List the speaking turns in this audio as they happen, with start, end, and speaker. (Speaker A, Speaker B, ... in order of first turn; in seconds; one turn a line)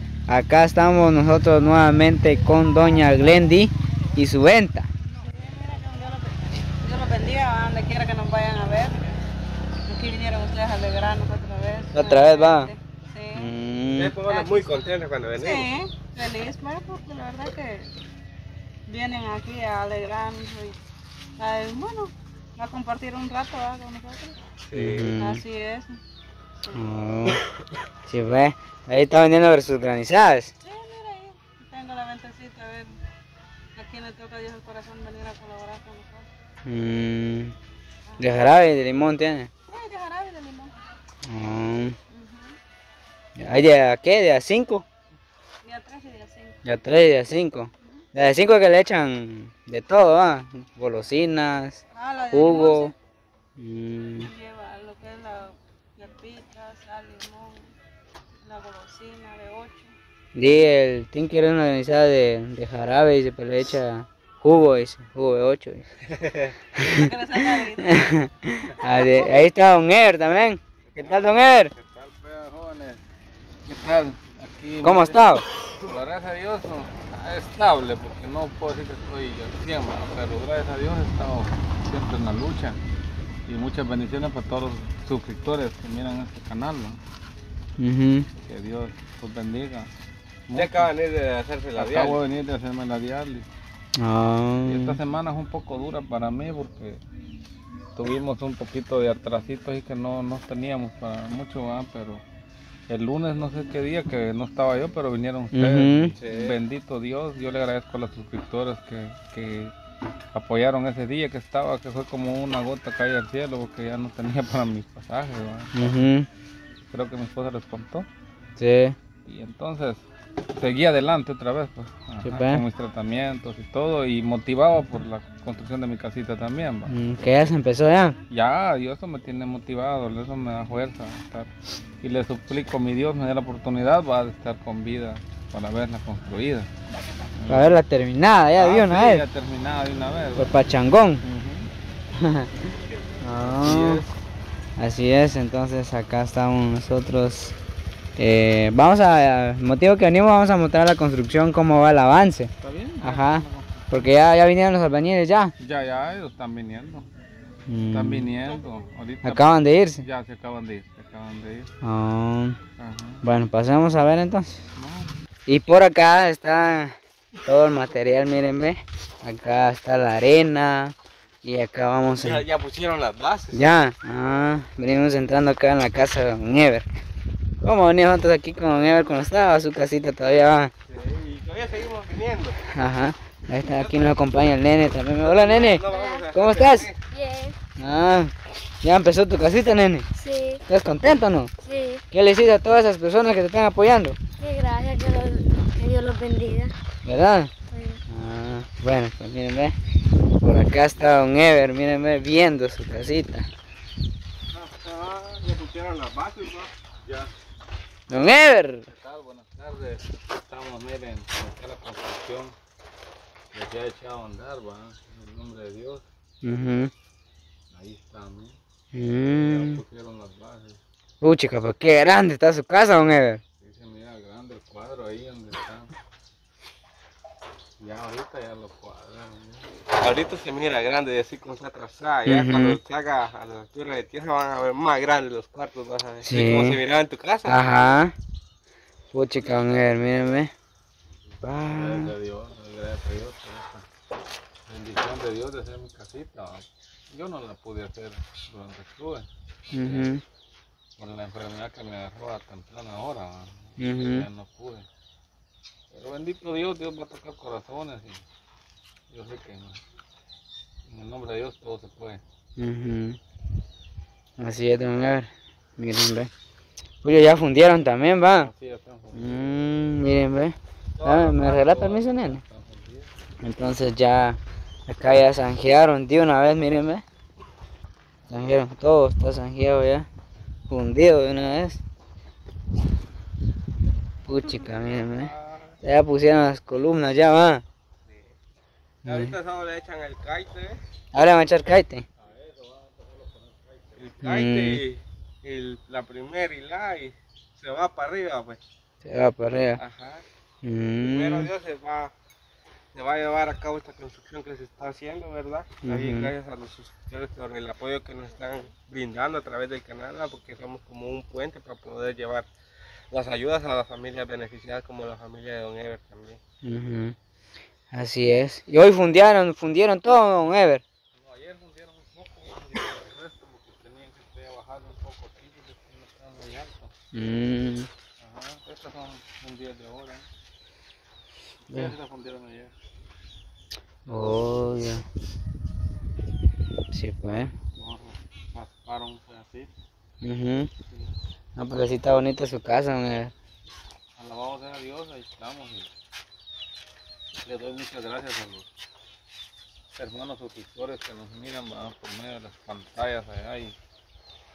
Speaker A: 0.3-4.9
Speaker B: 5.2-9.2
Speaker B: 9.8-13.5
Speaker A: 11.9-12.7
Speaker A: 13.4-14.2
Speaker C: 13.9-15.7
Speaker B: 14.3-14.8
Speaker B: 15.4-17.9
Speaker B: 18.9-20.8
Speaker B: 21.4-24.4
Speaker C: 24.7-25.1
Speaker A: 24.7-25.4
Speaker B: 25.1-26.0
Speaker A: 26.7-27.4
Speaker A: 28.1-30.5
Speaker B: 30.6-33.0
Speaker B: 33.8-36.3
Speaker A: 36.6-37.5
Speaker A: 38.2-39.5
Speaker B: 39.7-40.8
Speaker A: 41.2-42.0
Speaker B: 42.1-42.6
Speaker A: 43.4-44.9
Speaker B: 45.6-46.6
Speaker A: 46.6-52.9
Speaker B: 51.9-52.9
Speaker A: 53.6-54.3
Speaker B: 54.2-57.7
Speaker B: 58.4-60.0
Speaker A: 60.4-65.9
Speaker C: 66.1-66.5
Speaker A: 66.8-71.7
Speaker B: 66.8-68.1
Speaker D: 70.9-73.0
Speaker D: 73.7-82.8
Speaker A: 74.8-75.4
Speaker D: 83.5-87.0
Speaker A: 87.8-88.3
Speaker D: 88.4-89.9
Speaker D: 90.5-90.9
Speaker C: 90.6-92.2
Speaker D: 91.8-93.5
Speaker A: 94.0-95.0
Speaker D: 94.7-97.0
Speaker D: 98.0-102.2
Speaker D: 102.9-109.7
Speaker A: 105.5-106.2
Speaker C: 106.2-106.6
Speaker D: 110.3-115.9
Speaker A: 115.8-116.3
Speaker D: 116.9-118.1
Speaker A: 118.6-119.0
Speaker D: 119.2-120.0
Speaker D: 120.5-126.9
Speaker A: 122.2-122.7
Speaker A: 126.9-128.2
Speaker D: 128.3-136.7
Speaker D: 137.4-137.8
Speaker A: 137.5-139.3
Speaker D: 138.6-140.7
Speaker A: 140.4-141.2
Speaker D: 141.2-141.7
Speaker A: 142.2-142.7
Speaker A: 143.2-144.0
Speaker D: 143.3-144.1
Speaker A: 144.8-147.6
Speaker A: 148.2-152.5
Speaker D: 152.6-153.9
Speaker A: 153.0-155.5
Speaker D: 155.6-157.1
Speaker A: 157.7-158.3
Speaker D: 157.9-161.7
Speaker A: 159.2-160.0
Speaker A: 161.8-162.6
Speaker D: 162.8-163.2
Speaker A: 163.2-164.6
Speaker D: 164.8-165.2
Speaker A: 165.5-172.4
Speaker C: 172.2-173.7
Speaker A: 173.5-176.9
Speaker A: 177.6-180.7
Speaker C: 180.9-182.6
Speaker A: 182.7-186.9
Speaker C: 183.7-184.2
Speaker C: 185.1-187.0
Speaker E: 185.9-186.2
Speaker E: 187.1-187.6
Speaker A: 187.8-190.1
Speaker E: 190.2-190.6
Speaker A: 190.7-191.5
Speaker E: 191.6-192.0
Speaker A: 192.1-194.2
Speaker E: 194.4-196.7
Speaker A: 197.1-197.5
Speaker E: 197.7-198.0
Speaker A: 198.1-199.8
Speaker A: 200.4-203.5
Speaker C: 204.5-206.7
Speaker D: 207.0-207.3
Speaker A: 208.1-208.9
Speaker D: 208.9-212.6
Speaker D: 213.5-216.0
Speaker A: 216.4-216.9
Speaker D: 217.7-218.6
Speaker A: 218.9-219.8
Speaker D: 219.1-220.8
Speaker A: 221.2-223.4
Speaker D: 223.6-225.9
Speaker D: 227.8-229.8
Speaker C: 230.0-238.0
Speaker A: 232.3-232.8
Speaker A: 236.2-236.8
Speaker A: 237.4-238.1
Speaker A: 239.1-240.5
Speaker A: 241.4-242.1
Speaker D: 241.6-243.9
Speaker D: 244.7-250.2
Speaker A: 249.7-250.2
Speaker D: 251.0-254.9
Speaker A: 253.8-254.3
Speaker D: 255.9-258.2
Speaker D: 259.1-259.8
Speaker D: 260.9-262.2
Speaker A: 262.6-263.2
Speaker A: 264.4-266.3
Speaker A: 267.0-268.5
Speaker D: 268.3-269.5
Speaker A: 269.1-272.4
Speaker C: 271.0-271.3
Speaker D: 271.2-273.1
Speaker A: 273.4-277.0
Speaker A: 278.3-280.1
Speaker A: 280.7-281.8
Speaker A: 284.2-287.6
Speaker A: 289.1-289.3
Speaker C: 289.1-290.8
Speaker A: 291.1-292.1
Speaker D: 292.2-294.1
Speaker C: 294.0-298.6
Speaker A: 294.2-294.8
Speaker A: 299.0-299.8
Speaker C: 299.8-300.2
Speaker A: 300.6-301.5
Speaker C: 301.0-302.1
Speaker C: 302.9-312.5
Speaker A: 305.8-306.3
Speaker C: 313.1-316.4
Speaker A: 316.6-317.1
Speaker A: 317.9-320.8
Speaker D: 321.1-326.9
Speaker A: 327.1-327.9
Speaker D: 328.2-330.3
Speaker D: 331.7-332.7
Speaker A: 334.1-335.1
Speaker A: 336.9-337.5
Speaker D: 337.7-339.7
Speaker A: 340.2-340.7
Speaker D: 340.9-341.1
Speaker A: 341.6-343.3
Speaker D: 344.2-345.9
Speaker D: 347.4-348.7
Speaker D: 349.9-353.8